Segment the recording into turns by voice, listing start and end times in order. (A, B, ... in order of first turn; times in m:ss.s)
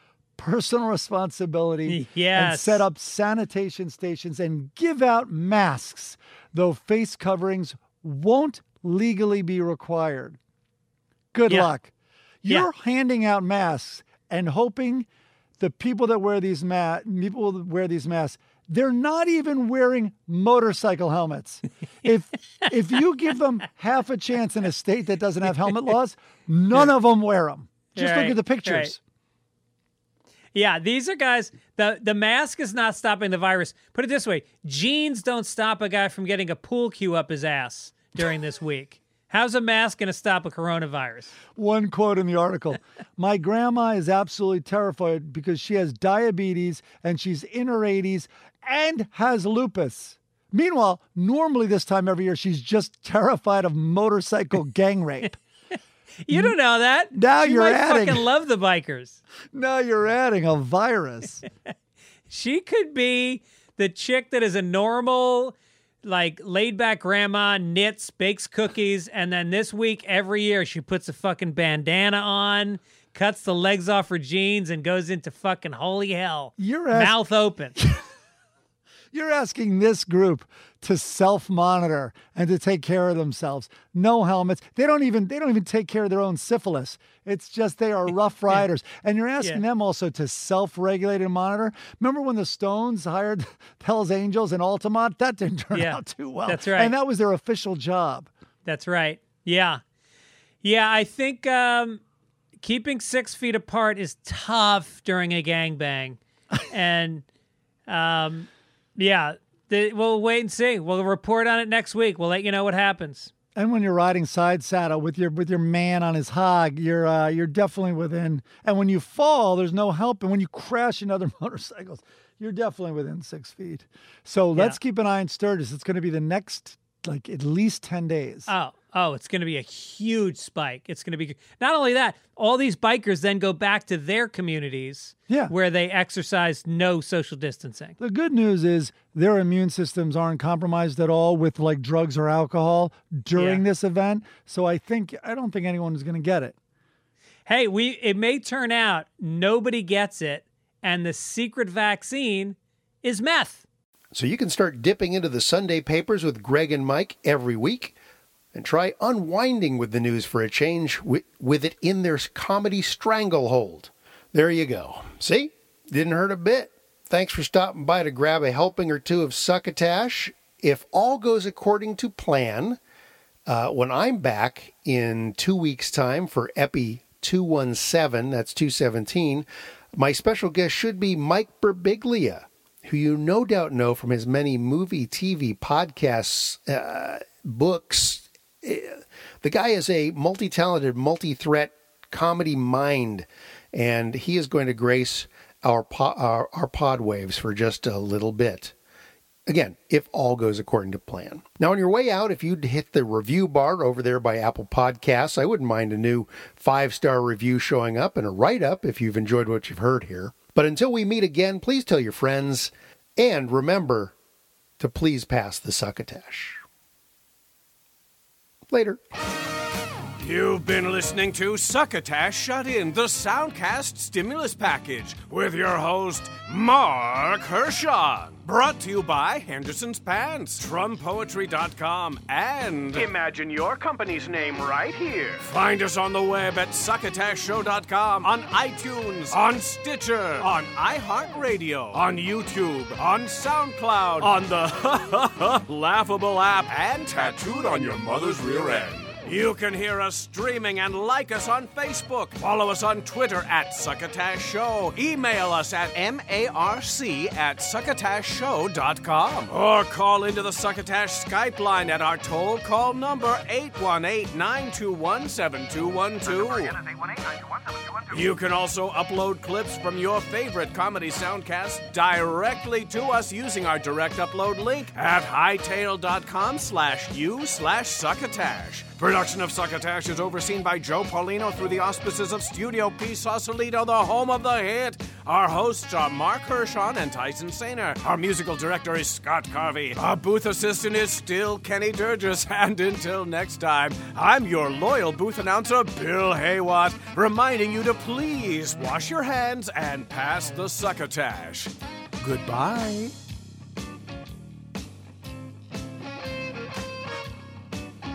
0:00.4-0:10.4 A
0:01.9-0:02.8 B
0:11.3-0:11.9 A
0:11.5-0:11.7 B
0:12.4-0:15.1 A
0:15.6-0:29.0 A
0:28.0-0:29.0 B
0:30.5-0:41.4 B
0:41.5-0:55.4 A
0:56.2-0:59.2 B
0:56.3-0:56.6 A
0:57.1-0:58.2 A
0:59.5-1:01.4 A
1:02.3-1:17.8 B
1:16.6-1:17.2 A
1:19.1-1:38.3 A
1:35.7-1:36.9 B
1:38.7-1:39.8 B
1:40.6-1:42.0 B
1:42.6-1:46.2 B
1:46.7-1:47.2 B
1:47.9-1:53.3 B
1:53.6-2:08.5 A
2:04.5-2:04.8 B
2:08.5-2:18.0 B
2:15.3-2:15.5 A
2:18.0-2:26.6 A
2:23.3-2:23.6 B
2:27.5-2:33.6 B
2:34.1-2:38.0 C
2:38.5-2:52.8 C
2:53.5-3:18.7 C
3:19.5-3:34.1 C
3:34.8-3:36.6 C
3:38.7-3:39.0 C
3:40.2-4:26.8 D
4:28.1-5:03.1 D